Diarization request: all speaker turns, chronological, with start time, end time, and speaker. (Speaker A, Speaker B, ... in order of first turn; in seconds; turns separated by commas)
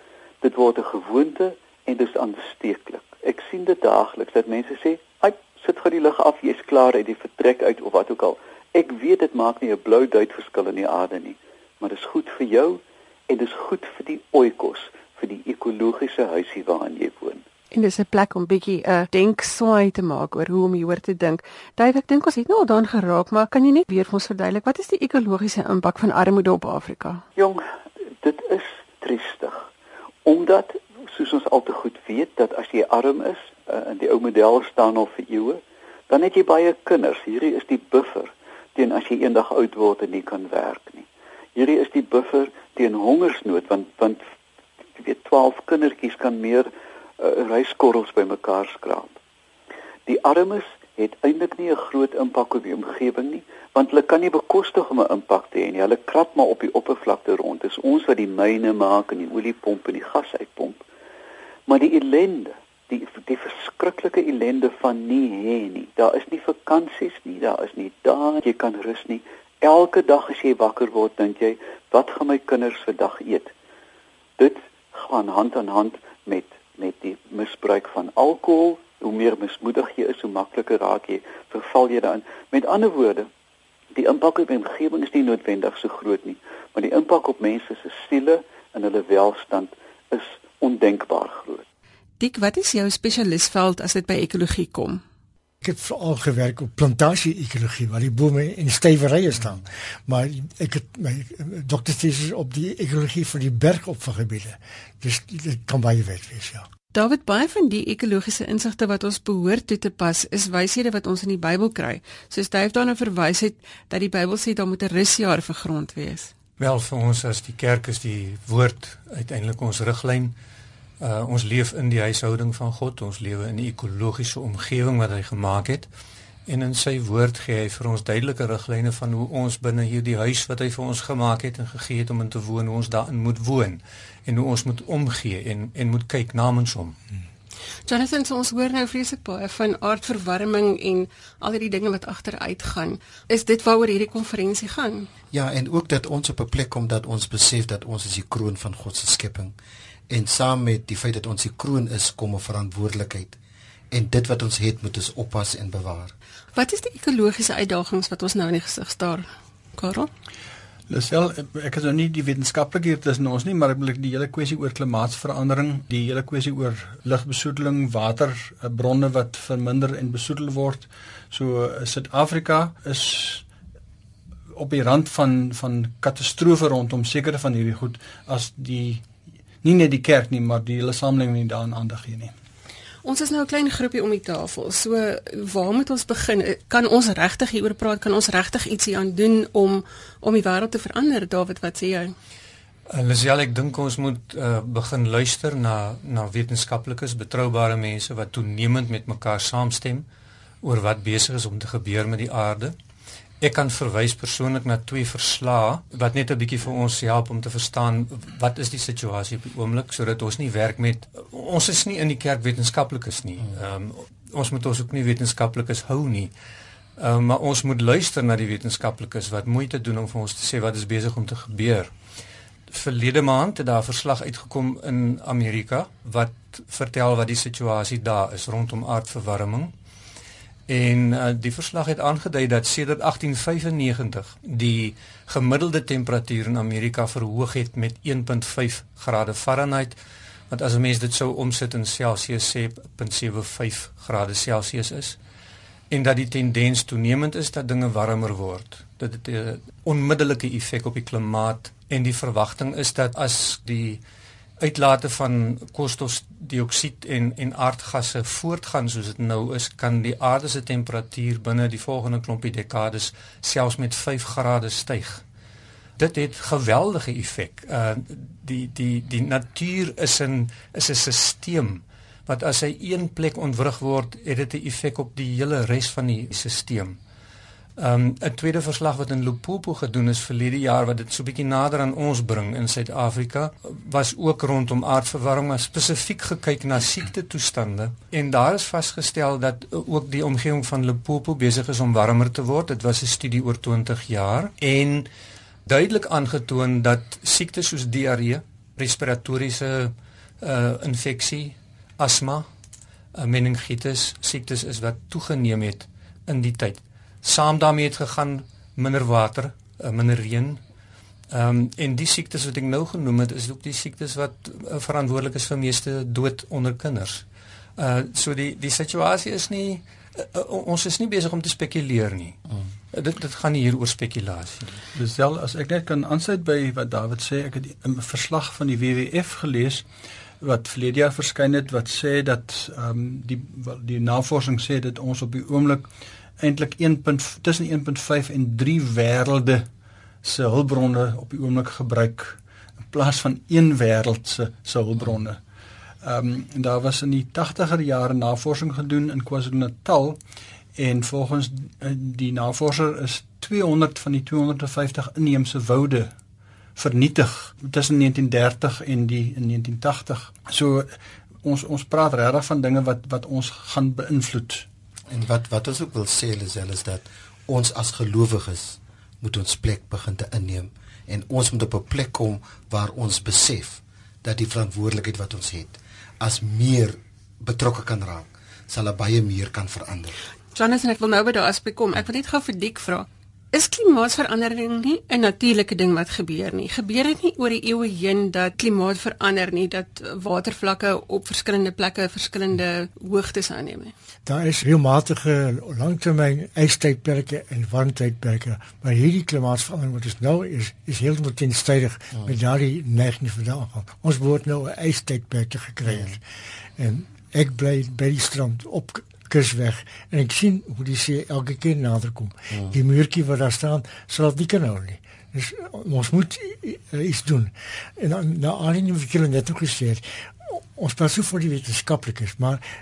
Speaker A: 0.4-17.4, Speaker B: 17.7-27.2, Speaker A: 27.4-27.6, Speaker A: 28.2-29.7, Speaker A: 30.2-44.2, Speaker A: 45.0-46.7, Speaker A: 47.2-49.1, Speaker A: 50.0-60.8, Speaker A: 61.7-73.5, Speaker A: 74.4-83.3, Speaker A: 83.9-91.6, Speaker B: 92.2-95.0, Speaker C: 95.6-106.7, Speaker B: 106.9-116.3, Speaker D: 116.6-120.3, Speaker D: 121.0-125.9, Speaker D: 126.5-136.9, Speaker B: 137.9-145.1, Speaker E: 145.3-149.5, Speaker E: 150.1-153.3, Speaker E: 153.9-156.1, Speaker B: 156.5-160.1, Speaker F: 160.9-173.4, Speaker F: 174.5-179.1, Speaker F: 179.6-182.3, Speaker B: 183.0-192.1, Speaker D: 192.9-200.1, Speaker D: 200.6-202.7, Speaker D: 203.4-216.3, Speaker D: 217.0-221.9, Speaker D: 222.7-229.7, Speaker D: 230.7-240.0, Speaker D: 240.5-245.2, Speaker D: 245.9-254.0, Speaker D: 254.6-265.2, Speaker D: 266.0-277.0, Speaker D: 277.8-295.1, Speaker D: 295.6-302.5, Speaker D: 303.1-310.6, Speaker D: 311.3-317.2, Speaker D: 317.8-322.4, Speaker D: 322.9-324.8, Speaker F: 324.9-329.8, Speaker F: 330.4-335.9, Speaker F: 336.4-339.6, Speaker F: 340.2-342.4, Speaker F: 342.9-345.4, Speaker F: 346.0-350.2, Speaker F: 350.8-356.1, Speaker F: 356.8-360.9, Speaker F: 361.4-364.6, Speaker E: 365.1-380.1, Speaker B: 380.5-393.9, Speaker C: 394.2-406.2, Speaker E: 405.9-406.1, Speaker C: 406.8-422.6